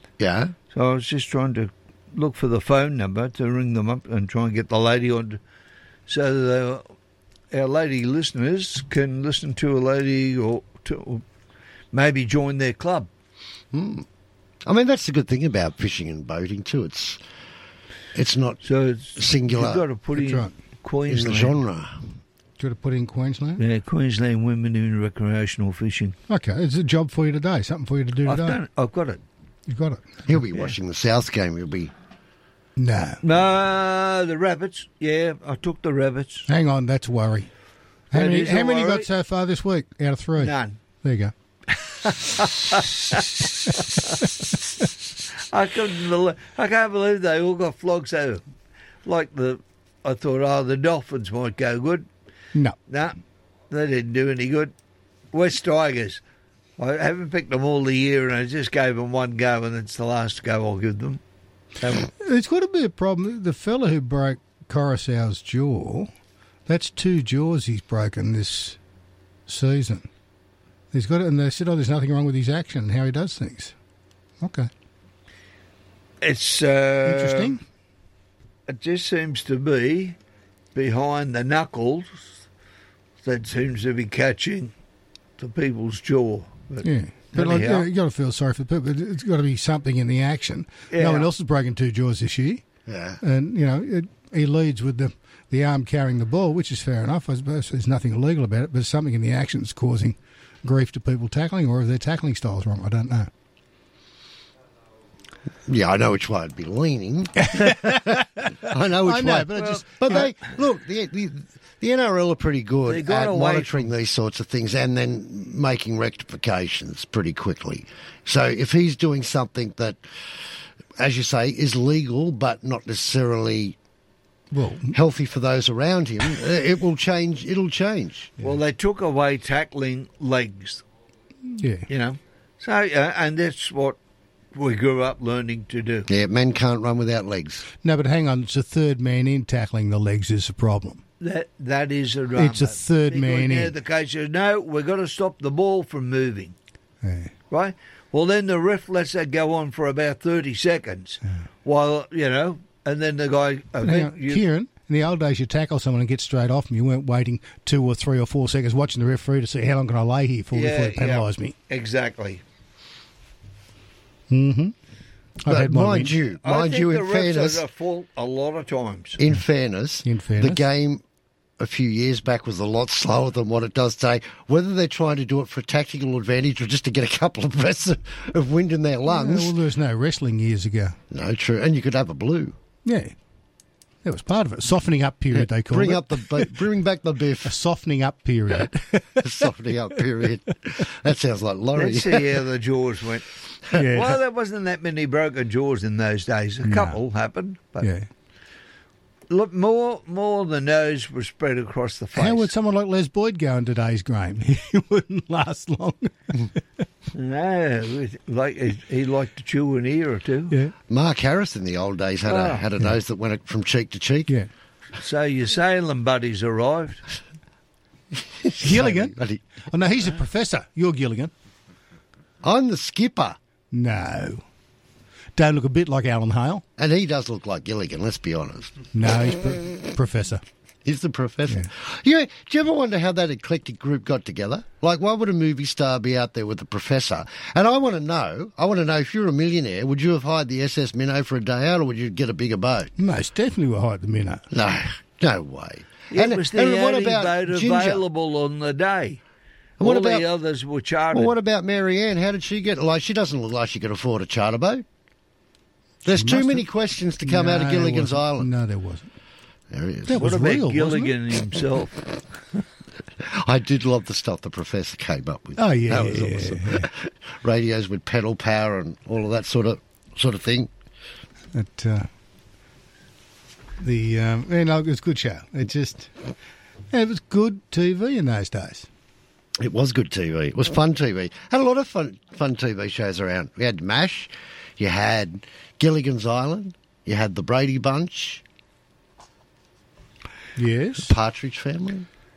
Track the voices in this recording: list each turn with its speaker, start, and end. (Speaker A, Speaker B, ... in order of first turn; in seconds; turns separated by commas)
Speaker A: 0.2-0.6, Speaker B: 0.7-5.4, Speaker B: 6.1-6.9, Speaker B: 7.5-11.2, Speaker B: 11.9-13.1, Speaker A: 13.7-14.1, Speaker A: 14.7-17.2, Speaker A: 18.1-18.6, Speaker B: 18.6-21.6, Speaker A: 19.1-19.8, Speaker C: 20.1-20.6, Speaker A: 21.1-22.0, Speaker C: 22.6-23.6, Speaker B: 23.6-26.2, Speaker C: 26.3-28.6, Speaker B: 28.2-29.2, Speaker C: 29.7-30.4, Speaker A: 30.3-31.9, Speaker C: 32.8-33.2, Speaker B: 33.2-36.5, Speaker C: 36.5-37.5, Speaker B: 38.1-39.1, Speaker C: 38.1-41.3, Speaker B: 40.4-40.8, Speaker B: 42.2-43.4, Speaker B: 45.5-48.4, Speaker B: 49.0-52.1, Speaker B: 52.9-53.2, Speaker B: 53.7-54.7, Speaker B: 55.3-56.2, Speaker B: 56.8-61.2, Speaker C: 61.9-66.1, Speaker C: 66.7-68.8, Speaker C: 69.5-70.1, Speaker C: 70.9-73.7, Speaker C: 74.4-74.7, Speaker B: 76.2-77.6, Speaker C: 77.0-77.6, Speaker B: 78.7-80.2, Speaker B: 80.7-82.4, Speaker B: 83.2-84.7, Speaker B: 85.4-87.9, Speaker C: 86.8-92.6, Speaker B: 90.9-91.3, Speaker A: 92.9-93.2, Speaker C: 93.2-103.3, Speaker A: 105.7-120.0, Speaker C: 107.4-108.5, Speaker C: 109.0-110.4, Speaker B: 109.5-110.4, Speaker B: 112.9-113.9, Speaker A: 121.0-123.8, Speaker C: 124.5-124.9, Speaker A: 124.9-128.3, Speaker B: 128.4-130.8, Speaker C: 131.6-131.9, Speaker B: 131.9-134.0, Speaker B: 134.5-136.1, Speaker A: 136.1-137.7, Speaker C: 137.8-141.0, Speaker B: 141.2-146.6, Speaker C: 142.4-143.7, Speaker C: 147.0-147.3, Speaker B: 147.5-154.4, Speaker C: 153.8-161.6, Speaker B: 160.5-162.4, Speaker C: 164.3-164.7, Speaker C: 165.4-166.2, Speaker A: 165.5-167.6, Speaker B: 166.4-169.2, Speaker A: 169.2-171.0, Speaker C: 170.1-170.6, Speaker A: 171.6-179.5, Speaker C: 179.1-181.0, Speaker A: 181.1-182.6, Speaker C: 182.9-183.1, Speaker C: 184.0-186.5, Speaker A: 185.3-187.5, Speaker C: 187.4-189.2, Speaker A: 189.2-192.3, Speaker B: 191.7-193.2, Speaker C: 193.7-194.1, Speaker B: 193.9-197.9, Speaker C: 196.6-197.0, Speaker C: 197.8-198.1, Speaker B: 199.3-202.5, Speaker C: 202.2-206.1, Speaker B: 207.1-210.5, Speaker A: 210.9-214.3, Speaker B: 212.3-212.6, Speaker B: 215.0-217.0, Speaker A: 218.4-219.4, Speaker C: 218.6-219.2, Speaker C: 219.7-221.3, Speaker A: 222.4-223.4, Speaker C: 223.7-224.4, Speaker C: 225.4-226.6, Speaker A: 226.8-228.8, Speaker C: 228.9-230.4, Speaker A: 230.8-242.9, Speaker C: 243.0-244.4, Speaker A: 244.5-248.0, Speaker B: 246.1-249.2, Speaker A: 249.8-250.2, Speaker B: 249.8-251.3, Speaker A: 251.1-254.8, Speaker A: 256.1-258.5, Speaker C: 256.1-256.6, Speaker C: 257.2-259.1, Speaker A: 259.7-260.3, Speaker C: 260.1-261.1, Speaker B: 260.2-261.9, Speaker A: 263.3-270.7, Speaker C: 265.6-266.9, Speaker C: 271.5-272.1, Speaker C: 273.8-276.1, Speaker C: 276.9-278.9, Speaker A: 279.6-288.4, Speaker C: 290.6-291.1, Speaker A: 291.1-292.1